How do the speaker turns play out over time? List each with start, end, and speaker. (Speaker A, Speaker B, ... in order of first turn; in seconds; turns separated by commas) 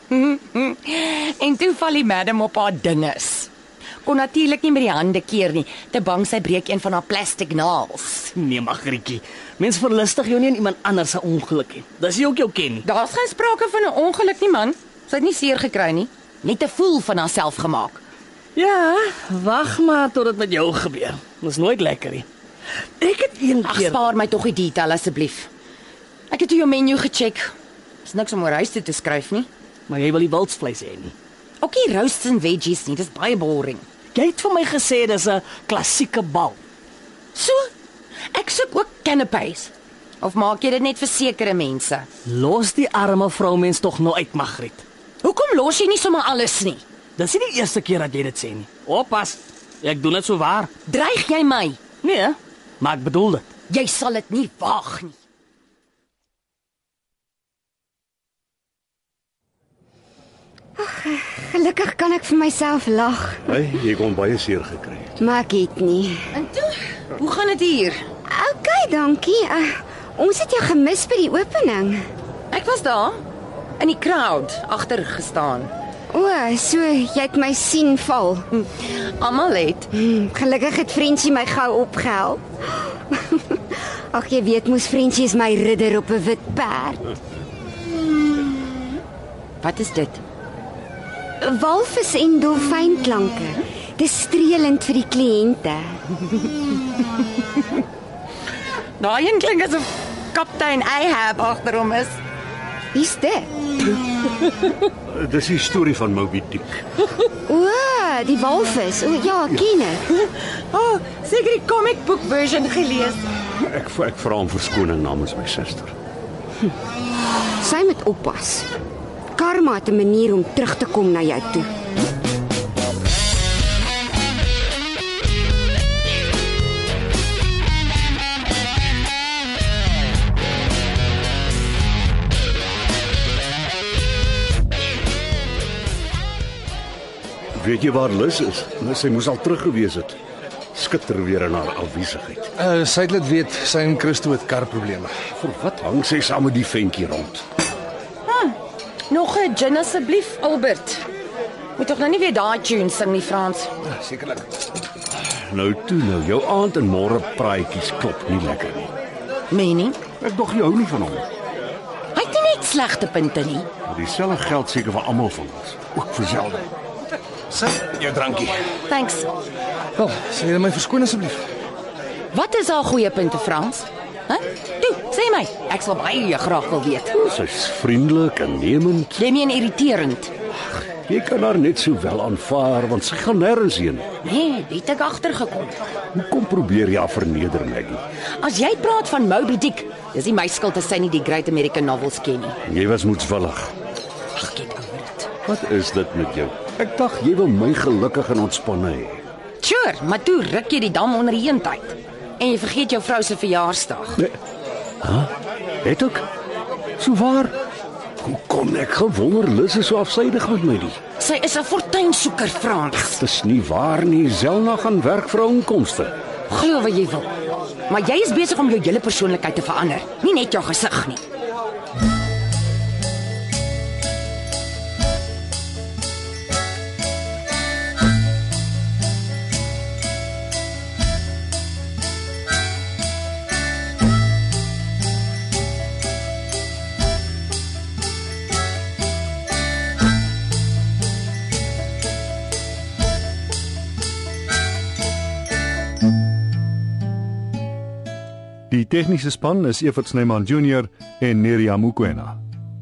Speaker A: 0.1-3.5, Speaker A: 4.0-8.3, Speaker B: 8.3-12.8, Speaker A: 12.8-18.0, Speaker B: 18.6-22.3, Speaker B: 23.0-24.0, Speaker A: 23.6-25.5, Speaker A: 26.3-27.5, Speaker A: 28.0-29.5, Speaker B: 29.9-31.1, Speaker A: 31.6-33.9, Speaker B: 34.1-36.6, Speaker A: 37.3-37.7, Speaker A: 38.3-42.1, Speaker B: 42.3-44.8, Speaker A: 45.2-46.8, Speaker B: 47.2-50.7, Speaker A: 50.9-51.8, Speaker B: 52.0-53.5, Speaker A: 53.7-55.2, Speaker C: 60.8-63.4, Speaker D: 63.5-65.1, Speaker C: 65.2-66.3, Speaker A: 66.3-68.0, Speaker C: 68.3-72.0, Speaker A: 72.5-73.2, Speaker A: 73.8-75.7, Speaker C: 76.1-78.5, Speaker A: 78.5-79.9, Speaker C: 79.9-83.6, Speaker C: 84.1-87.1, Speaker A: 89.6-90.2, Speaker C: 91.4-96.0, Speaker A: 99.0-102.2, Speaker C: 102.9-104.0, Speaker D: 105.1-106.8, Speaker C: 107.5-110.0, Speaker A: 110.1-113.2, Speaker D: 113.6-116.0, Speaker C: 117.6-118.7, Speaker C: 119.4-121.7, Speaker D: 137.6-140.2, Speaker D: 140.7-142.5, Speaker E: 142.6-145.3, Speaker D: 145.3-147.4, Speaker A: 148.3-148.6, Speaker A: 149.1-151.1, Speaker A: 151.8-153.7, Speaker E: 153.8-154.5, Speaker D: 155.2-158.9, Speaker A: 159.5-160.0, Speaker D: 160.2-161.3, Speaker A: 162.1-163.7, Speaker D: 163.9-166.7, Speaker E: 167.5-168.6, Speaker A: 168.9-169.3, Speaker E: 170.0-171.4, Speaker A: 172.3-177.2, Speaker D: 177.2-179.2, Speaker A: 179.2-180.3, Speaker D: 180.7-184.1, Speaker A: 184.2-185.8, Speaker D: 186.1-188.0, Speaker A: 188.4-192.6, Speaker D: 192.7-193.7, Speaker A: 194.3-195.3, Speaker D: 195.4-199.2, Speaker A: 199.6-204.2, Speaker D: 205.0-205.3, Speaker D: 205.8-206.3, Speaker D: 207.0-207.6, Speaker D: 208.2-211.0, Speaker A: 211.2-213.2, Speaker D: 213.1-216.2, Speaker A: 216.5-217.3, Speaker A: 217.9-221.2, Speaker F: 248.7-252.4